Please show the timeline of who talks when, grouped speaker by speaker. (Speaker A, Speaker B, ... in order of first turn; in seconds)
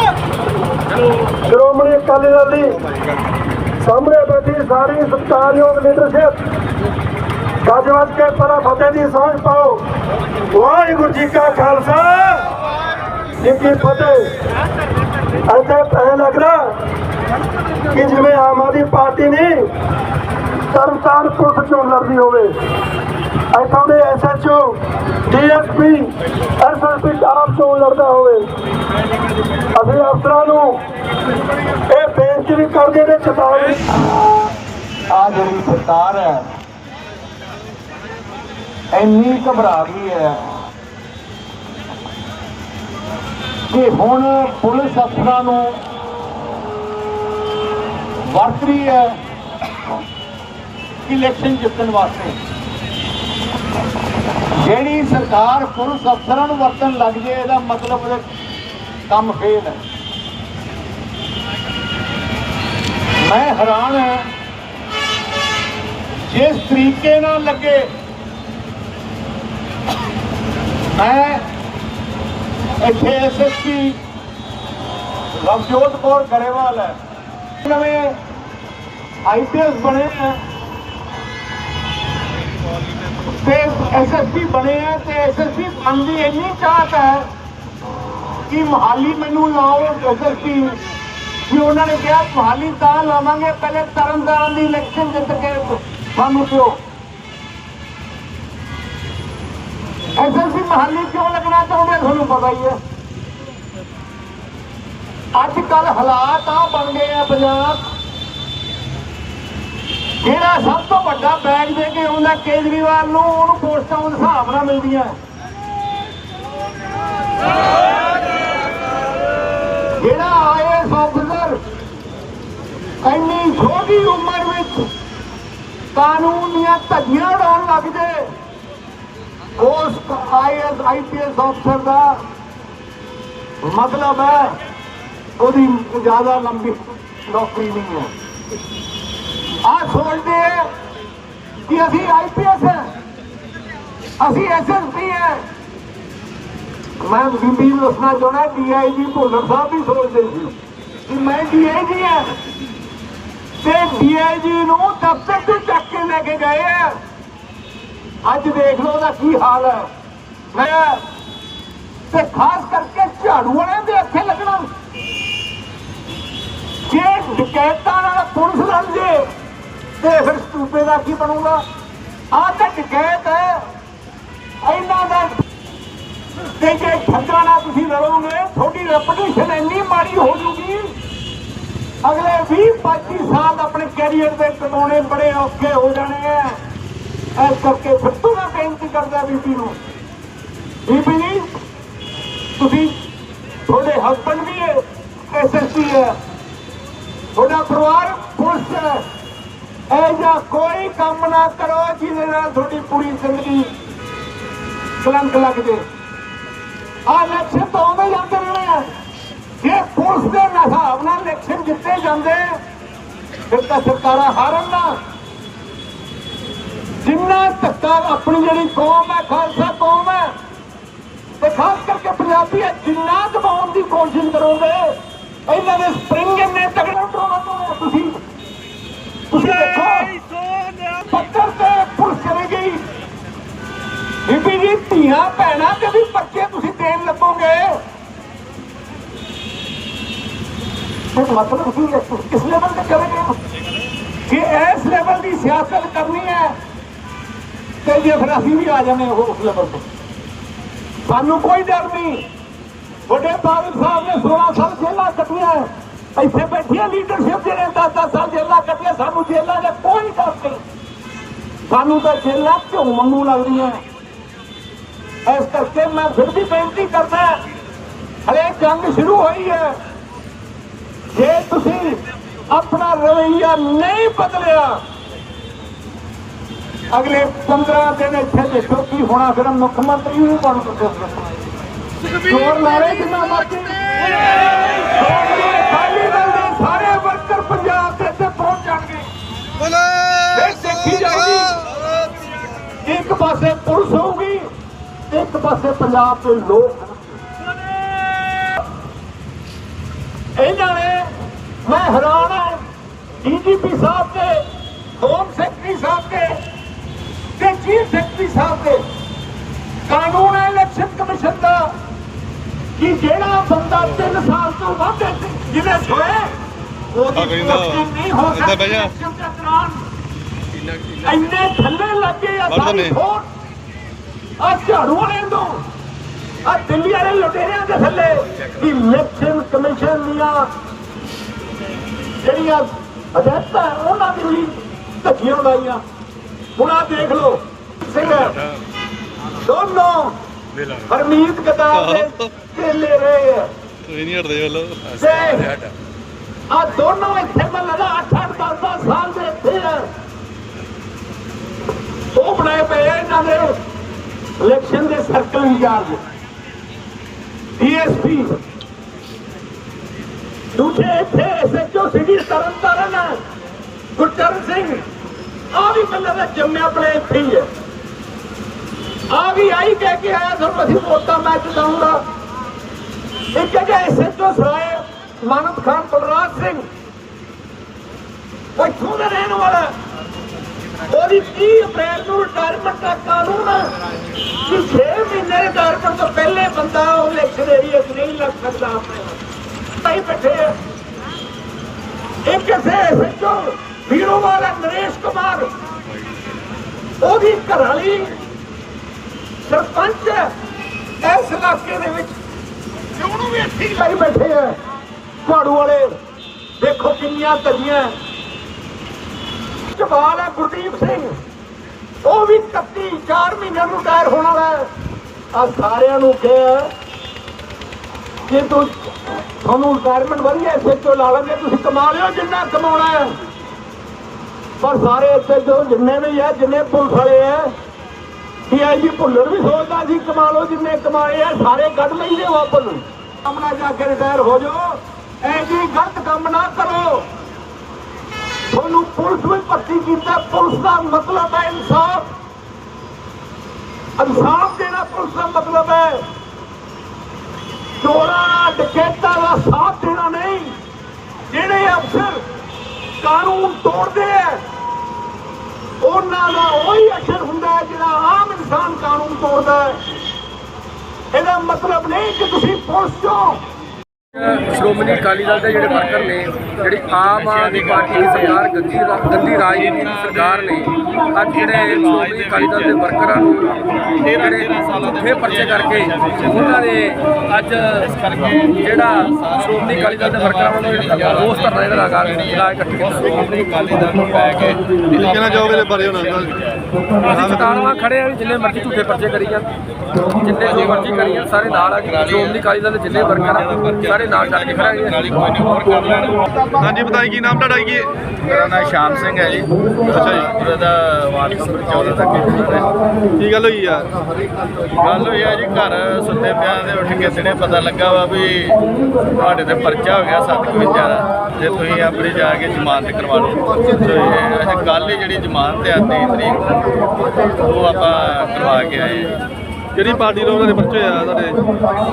Speaker A: 1.4-2.8, 3.8-6.4, 7.6-9.8, 10.5-12.5, 13.4-14.4, 15.4-16.8, 17.9-19.7, 20.7-22.6, 23.5-28.5, 29.7-30.8, 31.9-33.8
Speaker B: 35.1-36.5, 38.9-40.5, 43.7-45.8, 48.3-49.2, 51.0-52.4, 54.6-58.2, 59.1-59.8, 63.2-64.3, 66.3-67.9, 70.9-71.5, 72.8-74.0, 75.4-77.0, 77.6-78.2, 79.2-80.4, 83.2-87.3, 88.5-90.8, 91.5-96.8, 100.2-102.8, 105.3-107.9, 110.2-115.2, 120.0-121.6, 123.0-124.9, 125.9-128.3, 129.6-132.2, 133.6-134.6, 135.4-138.1, 139.6-140.7, 141.7-142.9, 144.2-145.4, 147.0-150.5, 151.1-152.4, 153.6-157.0, 158.2-159.9, 160.5-161.0, 162.1-164.7, 166.8-169.3, 170.0-171.6, 172.3-173.7, 174.6-175.4, 176.5-180.9, 182.0-186.6, 187.3-189.8, 190.8-191.6, 192.6-192.9, 193.7-196.2, 197.3-199.0, 199.9-203.7, 205.0-205.8, 207.1-208.9, 209.6-212.6, 213.5-215.0, 217.0-220.3, 221.4-228.2, 229.3-230.2, 230.8-232.8, 234.2-237.8, 241.1-243.4, 244.3-246.6, 247.8-249.8, 251.0-252.3, 253.1-260.6, 261.6-263.8, 265.2-267.4, 268.2-269.8, 271.1-274.8, 276.9-281.3, 282.2-289.1, 290.3-291.6, 292.8-294.5, 295.1-297.2, 300.4-302.6, 303.2-304.4, 305.0-306.4, 307.4-308.9, 309.9-311.8, 312.8-316.3, 316.9-319.8, 321.0-323.3, 324.4-325.7, 326.4-330.5, 332.2-335.8, 336.6-338.4, 339.4-340.1, 340.8-343.5, 345.0-345.6, 346.5-349.9, 352.1-353.6, 354.4-356.0, 357.6-358.4, 360.5-363.2, 363.9-364.9, 365.5-367.5, 369.1-372.0, 373.3-376.6, 378.6-379.7, 380.9-383.7, 384.4-389.2, 389.8-390.6, 392.2-395.5, 397.0-398.2, 399.4-400.3, 401.0-402.1, 402.9-404.6, 405.2-405.9, 406.6-407.9, 409.7-411.2, 412.0-414.7, 415.3-416.7, 418.2-423.2, 424.6-427.5, 428.5-437.1, 438.5-442.1, 444.0-446.0, 447.8-450.6, 451.3-452.2, 453.0-454.4, 455.8-459.8, 461.1-463.4
Speaker C: 317.1-318.9, 322.5-323.0, 341.7-342.3, 343.9-345.6, 485.0-486.4, 487.0-487.8, 496.6-497.9, 499.9-500.3, 503.2-503.9, 519.7-521.4
Speaker D: 464.1-473.6, 474.2-477.8, 478.6-483.1, 487.0-489.5, 490.1-495.0
Speaker E: 466.9-468.5, 469.2-472.9, 473.8-476.6, 477.6-486.6, 490.4-496.2, 498.2-502.7, 504.8-519.2